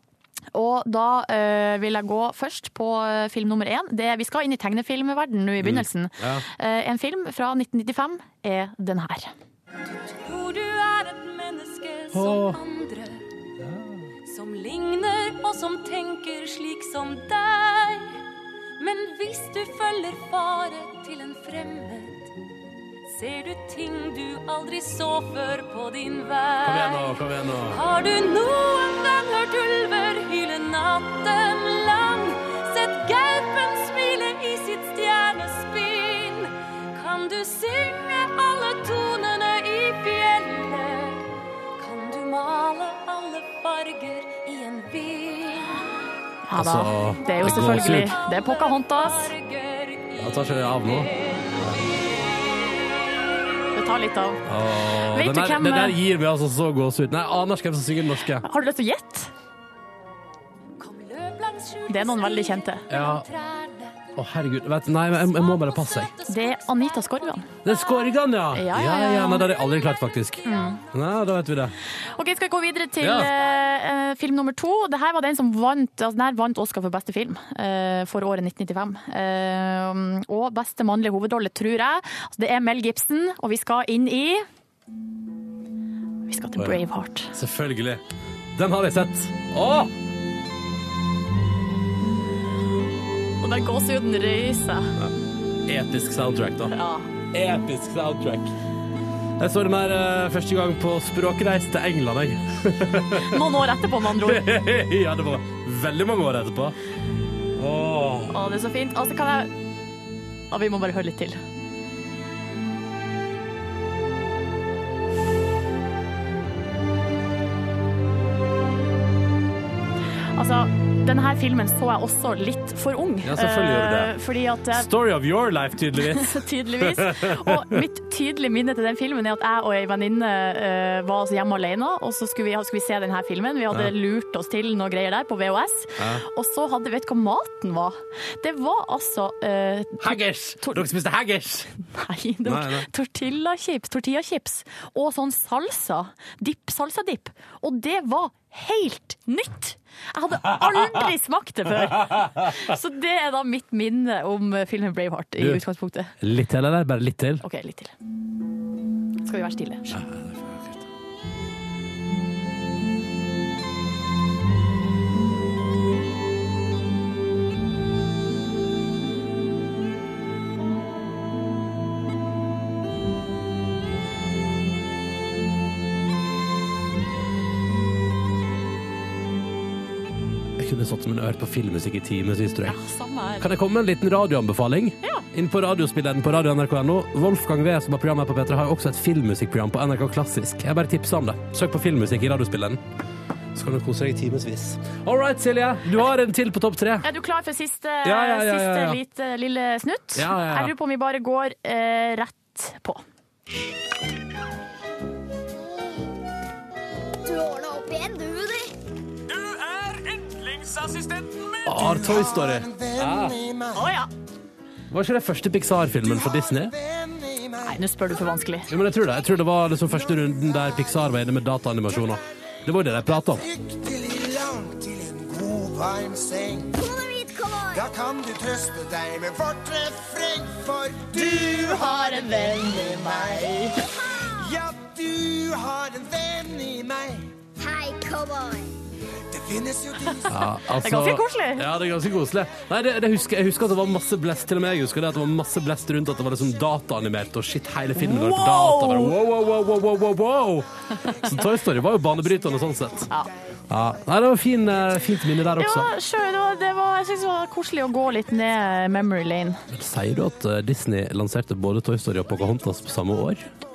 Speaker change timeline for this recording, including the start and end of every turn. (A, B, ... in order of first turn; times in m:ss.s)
0:00.5-0:09.3 A
0:05.6-0:06.4 B
0:09.9-0:13.2 C
0:12.1-0:12.6 B
0:13.6-0:14.0 B
0:14.2-0:18.2 C
0:18.8-0:22.3 C
0:23.1-0:27.2 C
0:26.6-0:27.8 B
0:27.7-0:46.1 C
0:46.5-0:49.3 A
0:46.5-0:48.1 B
0:47.0-0:52.7 C
0:50.2-0:51.8 B
0:53.7-0:54.4 A
0:54.4-0:58.4 B
0:55.1-0:56.0 A
0:58.4-0:59.3 A
1:00.8-1:04.1 C
1:01.9-1:02.8 A
1:02.9-1:03.2 B
1:04.2-1:06.1 B
1:05.0-1:08.3 C
1:06.3-1:07.4 A
1:07.6-1:11.7 B
1:08.5-1:09.5 A
1:09.4-1:11.6 C
1:10.4-1:10.8 A
1:12.1-1:24.4 A
1:13.0-1:13.3 B
1:26.3-1:27.3 A
1:27.3-1:28.0 B
1:28.5-1:29.9 B
1:33.4-1:34.9 A
1:35.7-1:36.7 B
1:36.7-1:37.1 A
1:37.3-1:38.5 B
1:39.4-1:43.4 B
1:43.2-1:44.4 A
1:44.2-1:46.8 B
1:47.6-1:48.3 B
1:48.3-1:49.5 A
1:50.5-1:51.4 A
2:00.4-2:04.9 A
2:03.2-2:04.1 B
2:04.7-2:07.8 B
2:06.0-2:20.8 A
2:20.0-2:21.7 B
2:21.8-2:36.1 A
2:22.4-2:22.9 B
2:31.8-2:32.6 B
2:36.2-2:37.4 B
2:37.4-2:37.9 A
2:39.2-2:39.9 A
2:39.9-2:40.8 B
3:00.6-3:02.8 B
3:02.6-3:03.4 A
3:03.4-3:12.8 B
3:05.0-3:05.3 A
3:13.5-3:17.0 B
3:17.0-3:23.0 A
3:18.0-3:19.0 B
3:20.2-3:20.7 B
3:27.2-3:28.7 D
3:31.6-3:33.4 B
3:31.7-3:33.9 E
3:33.7-3:34.1 A
3:34.9-3:36.7 B
3:36.0-3:38.3 E
3:37.6-3:38.7 A
3:38.7-3:43.4 B
3:39.0-3:41.2 E
3:41.9-3:42.2 E
3:42.9-3:46.8 E
3:46.8-3:47.9 D
3:47.7-3:53.7 E
3:51.1-3:53.8 A
3:54.3-3:57.3 E
3:57.6-3:58.7 D
3:59.3-4:00.3 E
4:00.1-4:01.6 A
4:00.3-4:10.7 B
4:08.0-4:09.1 A
4:11.2-4:13.1 B
4:13.7-4:15.9 B
4:15.6-4:19.6 A
4:19.7-4:23.4 B